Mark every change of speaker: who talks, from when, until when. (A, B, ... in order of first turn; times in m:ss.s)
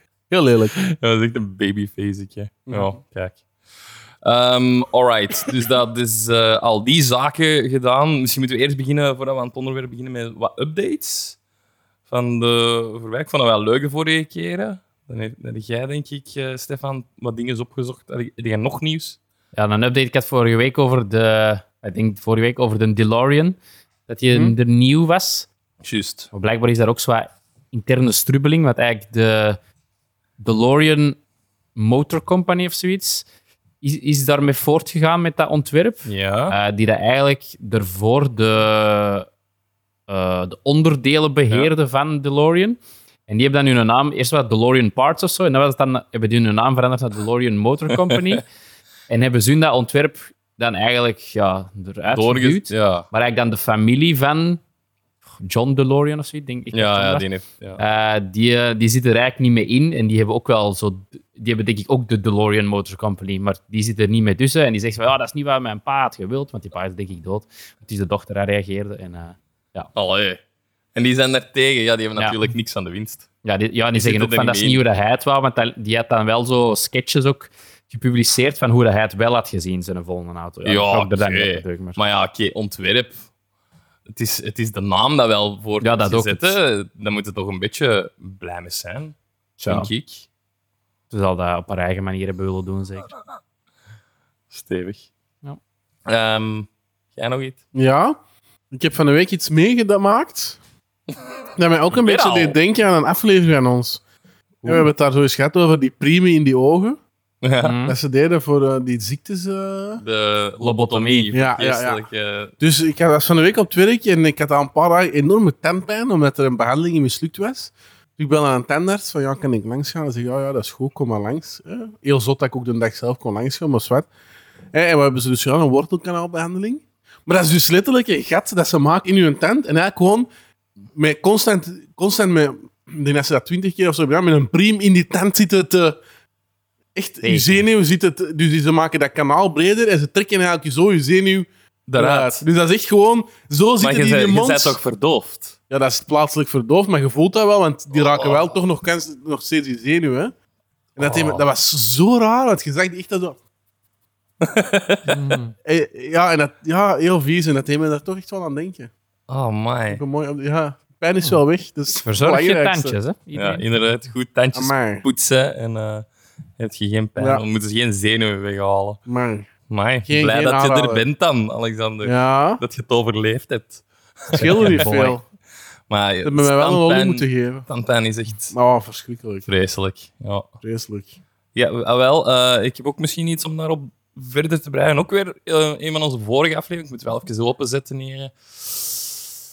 0:00.3-0:00.8 A
0:00.8-0:03.4 B
0:02.7-0:03.0 A
0:04.2-0:11.4 B
0:12.1-0:19.2 B
0:19.6-0:25.5 C
0:25.8-0:26.3 B
0:26.3-0:29.6 C
0:30.4-0:31.2 C
0:31.8-0:33.3 C
0:33.8-0:39.3 C
0:36.0-0:36.6 B
0:40.1-0:48.5 C
0:47.9-0:48.4 B
0:49.1-0:54.6 C
0:52.1-0:53.1 B
0:55.4-0:57.3 C
0:56.7-0:57.8 B
0:57.8-1:09.9 C
1:10.0-1:10.4 B
1:11.0-1:13.3 B
1:13.4-1:22.0 C
1:13.9-1:14.8 B
1:20.6-1:23.2 B
1:24.1-1:29.2 B
1:25.8-1:26.6 C
1:29.6-1:29.9 C
1:29.7-1:30.3 B
1:31.1-1:33.1 C
1:34.5-1:35.1 B
1:36.1-1:37.6 B
1:37.7-1:38.2 A
1:38.7-1:40.6 A
1:41.6-1:44.0 A
1:42.0-1:42.6 B
1:44.6-1:44.9 B
1:44.7-1:47.0 A
1:47.4-1:47.8 B
1:47.6-1:48.0 C
1:47.9-1:50.0 A
1:50.0-1:52.5 B
1:50.6-1:51.4 C
1:51.3-1:52.0 A
1:52.6-2:04.1 A
2:04.7-2:10.3 A
2:11.0-2:16.0 A
2:17.0-2:24.8 A
2:17.2-2:17.6 C
2:21.9-2:22.4 B
2:23.8-2:25.6 B
2:25.7-2:30.3 A
2:28.0-2:28.5 B
2:31.0-2:33.4 A
2:31.0-2:31.4 B
2:34.4-2:35.3 B
2:35.1-2:35.5 C
2:35.6-2:38.9 A
2:39.3-2:40.0 B
2:39.9-2:43.0 A
2:41.9-2:43.6 C
2:43.4-2:46.1 B
2:44.5-2:45.0 A
2:46.6-2:49.0 B
2:47.2-2:47.4 A
2:49.1-2:49.5 A
2:49.7-2:55.2 B
2:50.1-2:51.0 A
2:52.0-2:52.6 A
2:54.3-2:55.2 A
2:55.9-2:58.6 B
2:56.2-2:57.7 A
2:58.5-2:59.4 A
2:59.5-3:00.5 B
3:00.6-3:01.2 A
3:01.6-3:09.2 B